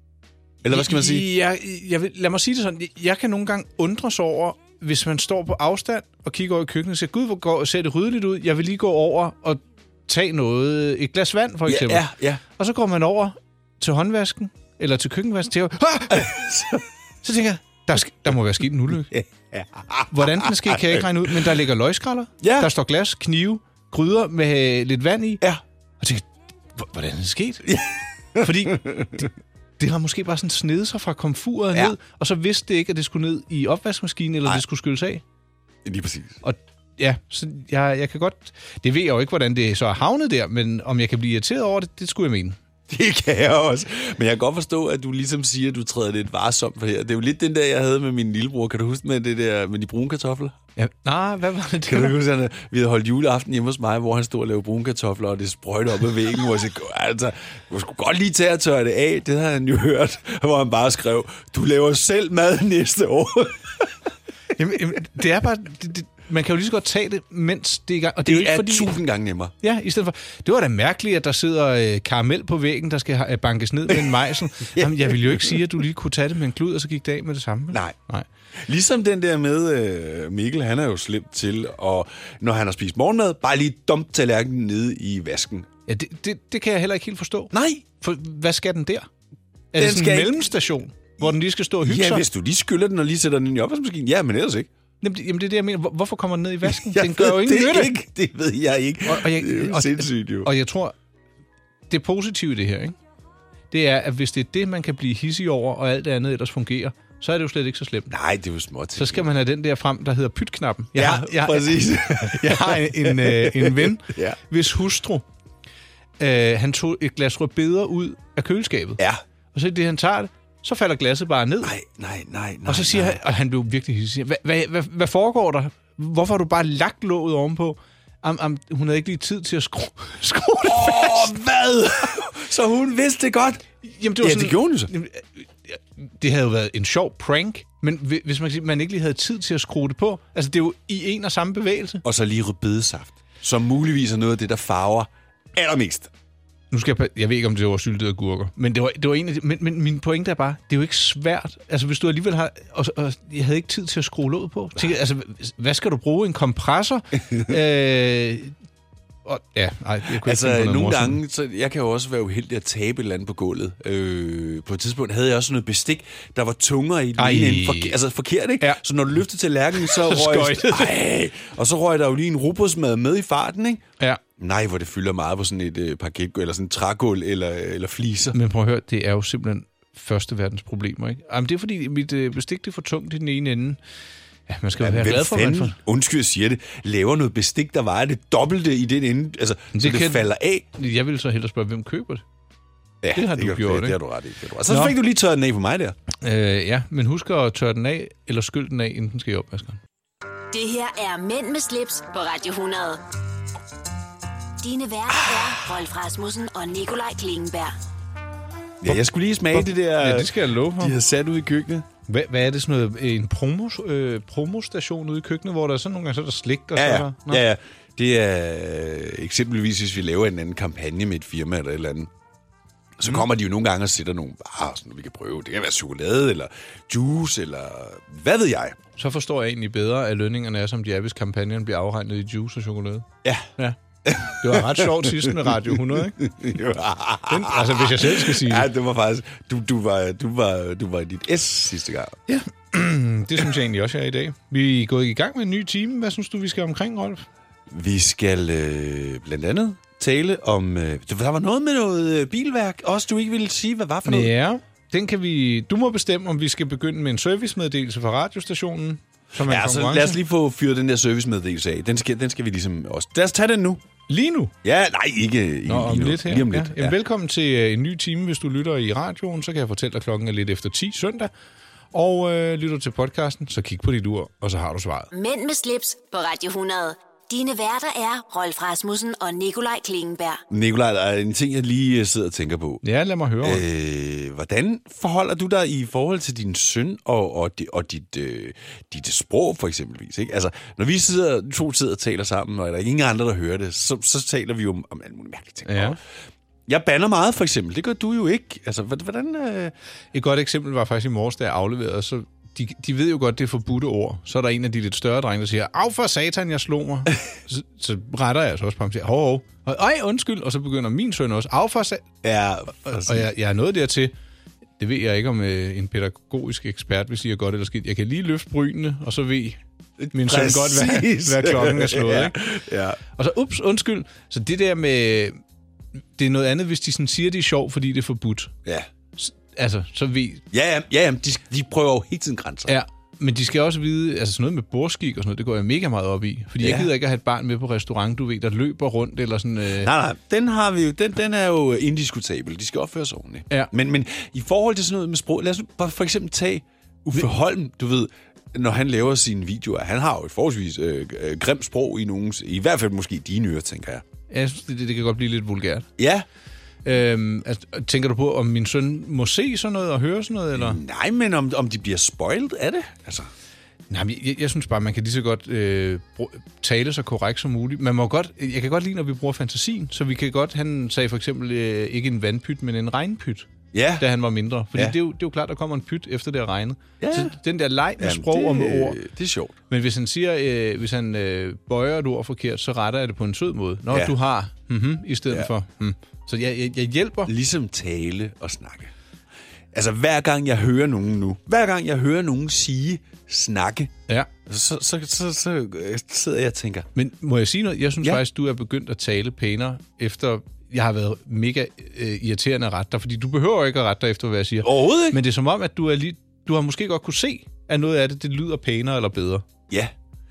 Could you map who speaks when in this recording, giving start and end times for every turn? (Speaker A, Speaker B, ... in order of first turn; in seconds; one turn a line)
Speaker A: 0.6-1.3
Speaker B: 0.7-16.5
Speaker A: 11.7-12.4
Speaker A: 16.1-16.9
Speaker B: 17.2-19.2
Speaker A: 19.1-21.1
Speaker B: 20.1-25.4
Speaker A: 22.4-22.7
Speaker B: 26.0-27.7
Speaker A: 27.6-29.3
Speaker B: 28.4-29.3
Speaker B: 29.8-35.2
Speaker A: 35.9-36.4
Speaker B: 36.4-42.6
Speaker A: 42.9-50.5
Speaker B: 50.8-52.1
Speaker A: 51.9-64.0
Speaker B: 64.6-68.9
Speaker A: 68.2-69.5
Speaker B: 69.6-78.3
Speaker A: 74.7-75.6
Speaker A: 77.7-78.0
Speaker A: 78.6-85.7
Speaker B: 85.9-89.1
Speaker A: 87.5-87.8
Speaker B: 89.7-92.2
Speaker A: 89.8-90.5
Speaker A: 91.8-94.7
Speaker B: 95.0-97.9
Speaker A: 96.7-100.5
Speaker B: 99.0-101.0
Speaker B: 101.9-103.0
Speaker B: 103.7-108.1
Speaker A: 108.1-109.3
Speaker B: 109.0-115.2
Speaker A: 111.0-114.4
Speaker B: 116.2-119.0
Speaker B: 119.5-121.7
Speaker A: 121.6-123.2
Speaker B: 122.7-131.3
Speaker A: 130.6-133.6
Speaker B: 133.8-142.0
Speaker A: 134.2-134.9
Speaker A: 142.0-146.1
Speaker B: 146.7-158.6
Speaker B: 159.3-161.2
Speaker A: 160.2-173.8
Speaker B: 167.2-168.0
Speaker B: 169.8-171.0
Speaker A: 174.4-178.4
Speaker B: 178.3-183.8
Speaker B: 184.5-185.8
Speaker A: 184.8-190.7
Speaker B: 189.8-192.2
Speaker A: 193.0-196.0
Speaker B: 193.1-194.0
Speaker B: 194.7-195.0
Speaker B: 196.2-199.8
Speaker C: 200.5-203.0
Speaker C: 204.6-207.8
Speaker A: 208.8-211.9
Speaker B: 209.5-211.0
Speaker B: 212.1-217.4
Speaker A: 216.8-222.1
Speaker A: 223.0-228.8
Speaker B: 229.0-233.1
Speaker A: 233.2-233.5
Speaker B: 233.6-236.2
Speaker A: 234.1-242.2
Speaker B: 237.3-238.7
Speaker B: 242.3-247.3
Speaker A: 247.7-254.3
Speaker B: 254.1-260.2
Speaker A: 259.4-263.8
Speaker B: 264.1-264.5
Speaker A: 264.6-267.0
Speaker B: 265.7-271.3
Speaker B: 271.9-275.1
Speaker C: 275.1-280.4
Speaker A: 280.5-282.8
Speaker B: 282.8-283.6
Speaker A: 283.4-296.0
Speaker B: 295.7-296.0
Speaker A: 296.7-299.7
Speaker B: 300.1-312.1
Speaker A: 312.2-313.3
Speaker B: 312.8-314.1
Speaker B: 314.8-319.6
Speaker A: 320.0-323.0
Speaker B: 320.1-322.4
Speaker B: 323.1-325.4
Speaker B: 326.2-328.5
Speaker B: 329.2-330.4
Speaker A: 330.5-332.7
Speaker B: 332.7-339.9
Speaker A: 336.6-336.9
Speaker A: 339.8-354.0
Speaker B: 354.3-355.9
Speaker A: 356.0-356.3
Speaker B: 356.9-360.8
Speaker A: 360.6-363.3
Speaker B: 363.9-373.5
Speaker A: 373.7-374.1
Speaker B: 374.0-379.0
Speaker A: 377.0-377.4
Speaker A: 378.0-379.6
Speaker B: 379.7-387.3
Speaker A: 383.9-384.2
Speaker A: 387.3-388.9
Speaker A: 389.7-393.9
Speaker A: 394.5-396.9
Speaker B: 396.9-409.4
Speaker A: 404.6-405.2